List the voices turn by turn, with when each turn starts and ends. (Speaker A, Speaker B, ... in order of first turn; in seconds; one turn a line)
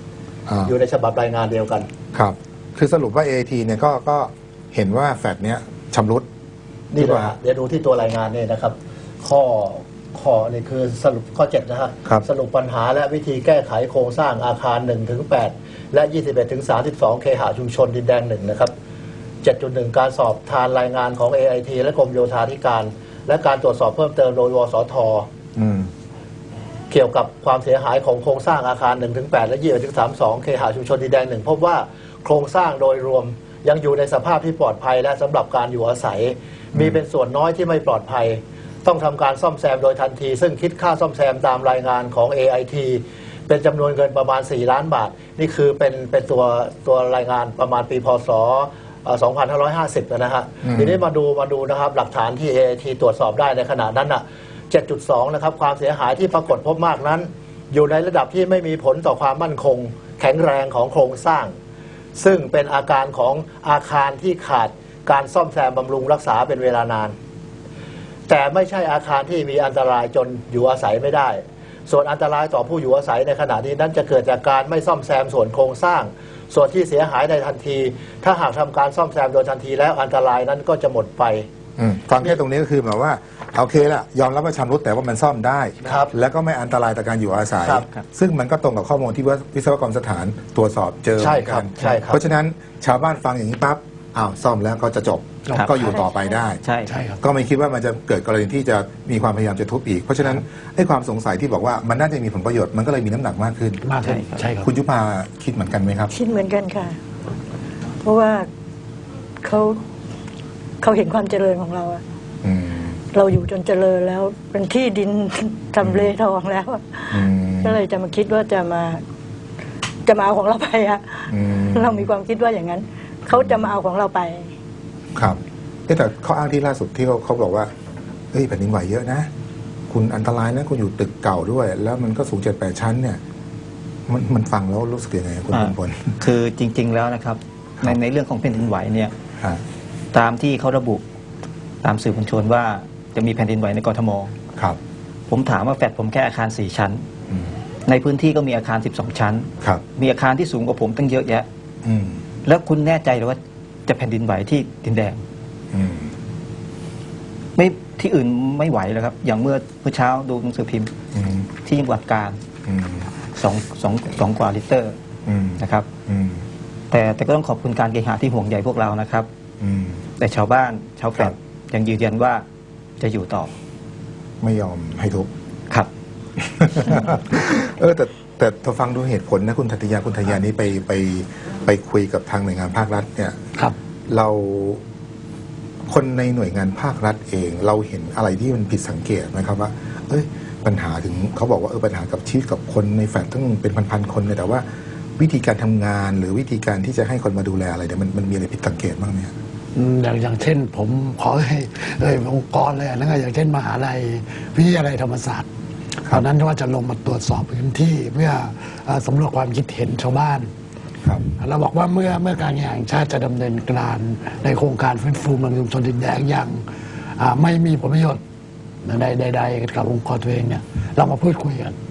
Speaker A: 0.5-0.7
Speaker B: 0.6-1.9
Speaker A: 2.1-6.2
Speaker B: 6.9-18.7
Speaker A: 7.0-7.3
Speaker B: 19.4-25.3
Speaker A: 25.6-25.9
Speaker B: 26.9-61.5
Speaker A: 50.6-51.0
Speaker B: 62.1-67.1
Speaker B: 68.3-81.5
Speaker A: 81.8-96.6
Speaker B: 85.8-86.1
Speaker B: 91.2-92.2
Speaker C: 95.5-95.8
Speaker D: 95.8-96.5
Speaker E: 96.6-96.9
Speaker C: 96.8-97.2
Speaker A: 97.2-103.8
Speaker C: 103.8-104.7
Speaker E: 104.0-104.4
Speaker A: 104.6-106.1
Speaker D: 106.1-107.0
Speaker D: 108.0-108.5
Speaker D: 109.4-109.8
Speaker D: 110.8-112.0
Speaker A: 112.4-113.0
Speaker D: 113.1-119.0
Speaker A: 115.8-116.1
Speaker A: 117.1-117.8
Speaker D: 120.0-124.5
Speaker A: 121.3-122.1
Speaker A: 123.3-123.7
Speaker A: 125.2-127.7
Speaker A: 128.3-129.3
Speaker A: 129.9-133.2
Speaker A: 134.1-136.2
Speaker E: 135.5-139.1
Speaker E: 140.1-141.0
Speaker E: 141.8-144.3
Speaker E: 145.3-147.0
Speaker E: 147.8-151.5
Speaker A: 151.8-152.2
Speaker E: 152.4-155.2
Speaker A: 155.7-156.1
Speaker E: 157.6-160.9
Speaker A: 161.1-161.5
Speaker E: 161.6-162.4
Speaker A: 162.7-163.1
Speaker E: 163.3-164.9
Speaker A: 165.2-166.4
Speaker E: 165.6-165.9
Speaker E: 166.9-169.3
Speaker A: 169.6-170.0
Speaker E: 170.2-172.4
Speaker E: 173.0-173.5
Speaker A: 174.4-175.3
Speaker A: 176.4-183.4
Speaker A: 184.1-184.8
Speaker A: 185.9-194.6
Speaker A: 195.2-199.3
Speaker C: 199.7-205.5
Speaker C: 206.1-210.5
Speaker C: 211.4-218.2
Speaker C: 218.8-221.8